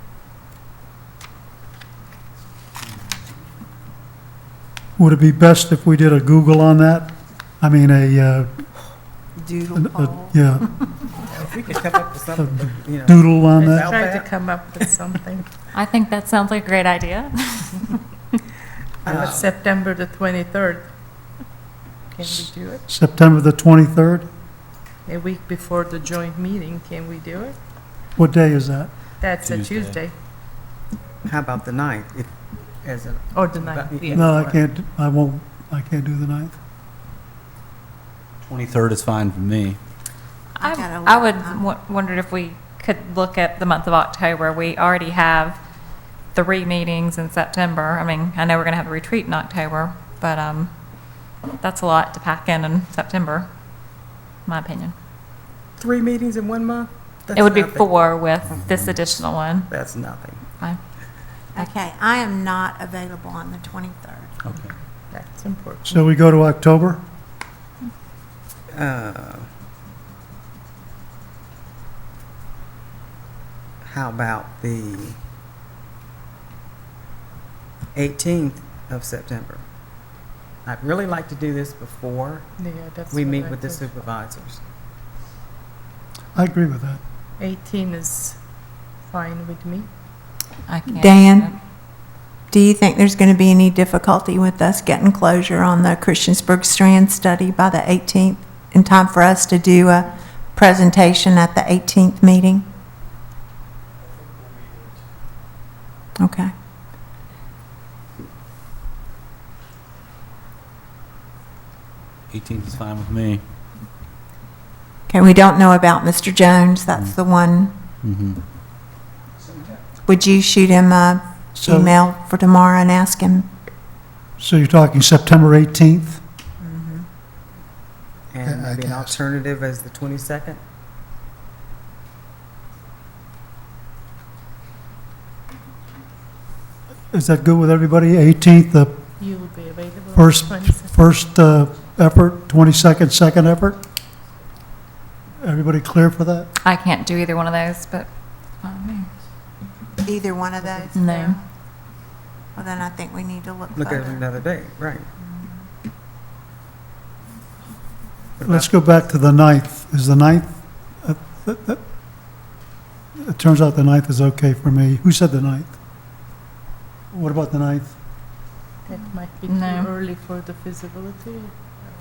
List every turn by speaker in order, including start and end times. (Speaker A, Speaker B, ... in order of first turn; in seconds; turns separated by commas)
Speaker A: 5.0-8.7, Speaker B: 9.4-10.7, Speaker A: 9.8-10.7, Speaker C: 11.3-14.3, Speaker A: 12.4-13.9, Speaker D: 13.6-15.5, Speaker E: 15.7-17.9, Speaker C: 19.0-19.5, Speaker D: 19.1-20.9, Speaker D: 22.1-22.8, Speaker A: 22.9-24.3, Speaker D: 25.1-27.6, Speaker A: 28.2-28.9, Speaker D: 29.2-30.1, Speaker F: 29.4-30.0, Speaker C: 31.2-34.6, Speaker D: 33.3-34.5, Speaker A: 34.1-36.6, Speaker F: 38.4-39.8, Speaker B: 40.6-41.6, Speaker E: 40.6-45.6, Speaker E: 46.3-50.7, Speaker E: 51.6-53.5, Speaker E: 54.5-54.9, Speaker C: 55.8-57.9, Speaker E: 57.4-59.7, Speaker C: 59.7-60.4, Speaker B: 61.5-64.4, Speaker F: 64.5-64.7, Speaker D: 65.1-66.0, Speaker A: 65.9-67.0, Speaker C: 68.7-69.5, Speaker C: 73.8-75.2, Speaker C: 78.0-79.6, Speaker C: 80.7-82.5, Speaker D: 82.6-83.9, Speaker C: 83.1-84.6, Speaker A: 86.3-87.0, Speaker D: 87.4-88.4, Speaker D: 89.1-89.9, Speaker E: 90.7-91.5, Speaker B: 90.9-91.5, Speaker B: 92.5-102.7, Speaker B: 106.2-106.5, Speaker F: 112.3-113.4, Speaker B: 115.1-117.7, Speaker F: 118.0-118.4, Speaker B: 120.1-123.5, Speaker A: 121.6-122.0, Speaker A: 124.4-126.2, Speaker B: 126.6-127.1, Speaker C: 128.3-130.6, Speaker A: 128.5-129.1, Speaker A: 137.1-139.0, Speaker D: 139.2-140.9, Speaker A: 140.2-143.8, Speaker A: 145.4-146.5, Speaker E: 146.6-148.1, Speaker E: 148.6-149.1, Speaker B: 150.0-151.4, Speaker E: 150.9-151.4, Speaker B: 152.6-154.3, Speaker C: 153.8-155.1, Speaker B: 155.2-155.7, Speaker C: 158.4-158.7, Speaker A: 158.4-161.8, Speaker A: 163.2-165.8, Speaker A: 167.1-167.9, Speaker D: 168.9-171.6, Speaker E: 169.5-169.9